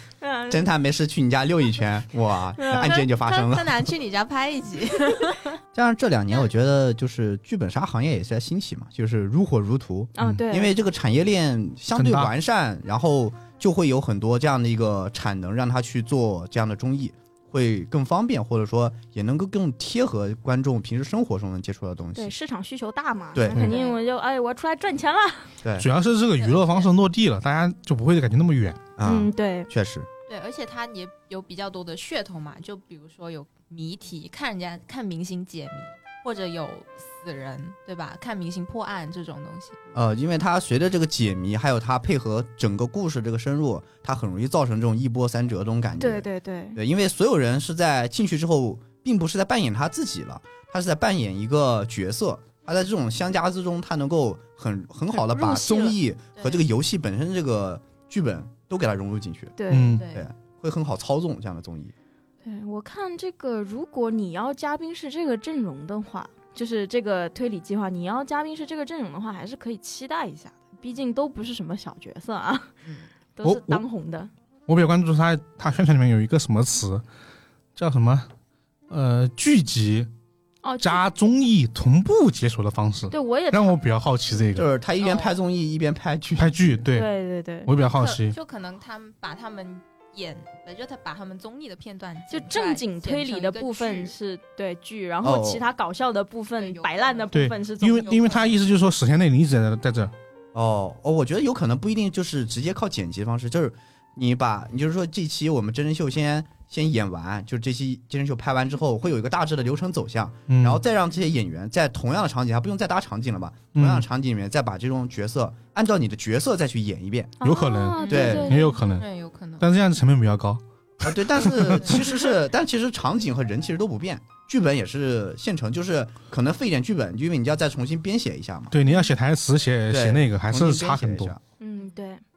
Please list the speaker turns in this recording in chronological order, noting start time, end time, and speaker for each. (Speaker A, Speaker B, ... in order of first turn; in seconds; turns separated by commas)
Speaker A: 0.2-0.6, Speaker B: 0.5-3.8, Speaker A: 2.6-3.1, Speaker C: 3.2-5.6, Speaker B: 5.7-22.3, Speaker A: 10.2-10.7, Speaker D: 11.9-12.3, Speaker A: 22.1-25.5, Speaker B: 23.3-23.7, Speaker C: 23.6-24.0, Speaker B: 25.6-25.9, Speaker D: 25.8-28.8, Speaker C: 26.4-26.9, Speaker B: 29.0-30.1, Speaker A: 29.0-29.7, Speaker C: 30.3-39.8, Speaker B: 39.9-59.5, Speaker A: 46.0-46.8, Speaker A: 55.1-56.0, Speaker A: 59.6-60.1, Speaker D: 59.7-60.0, Speaker C: 59.9-60.3, Speaker B: 60.1-61.9, Speaker A: 62.4-72.8, Speaker A: 73.4-74.3, Speaker D: 73.4-73.8, Speaker D: 74.7-77.0, Speaker D: 77.8-78.3, Speaker D: 78.9-80.1, Speaker A: 80.6-81.0, Speaker D: 80.8-84.7, Speaker A: 83.1-83.8, Speaker B: 84.5-86.8, Speaker C: 85.0-85.3, Speaker D: 86.4-87.1, Speaker A: 86.9-87.7, Speaker D: 87.7-88.3, Speaker C: 87.8-94.1, Speaker A: 92.3-98.5, Speaker B: 95.2-95.6, Speaker C: 96.6-97.3, Speaker D: 97.3-100.1, Speaker C: 98.1-98.6, Speaker B: 100.5-117.4, Speaker D: 110.5-110.8, Speaker D: 113.7-114.0, Speaker A: 117.4-118.8, Speaker D: 117.4-119.0, Speaker C: 118.0-119.7, Speaker B: 118.0-118.5, Speaker D: 119.6-122.0, Speaker B: 121.0-128.7, Speaker D: 128.7-131.3, Speaker B: 129.9-131.4, Speaker A: 131.6-132.2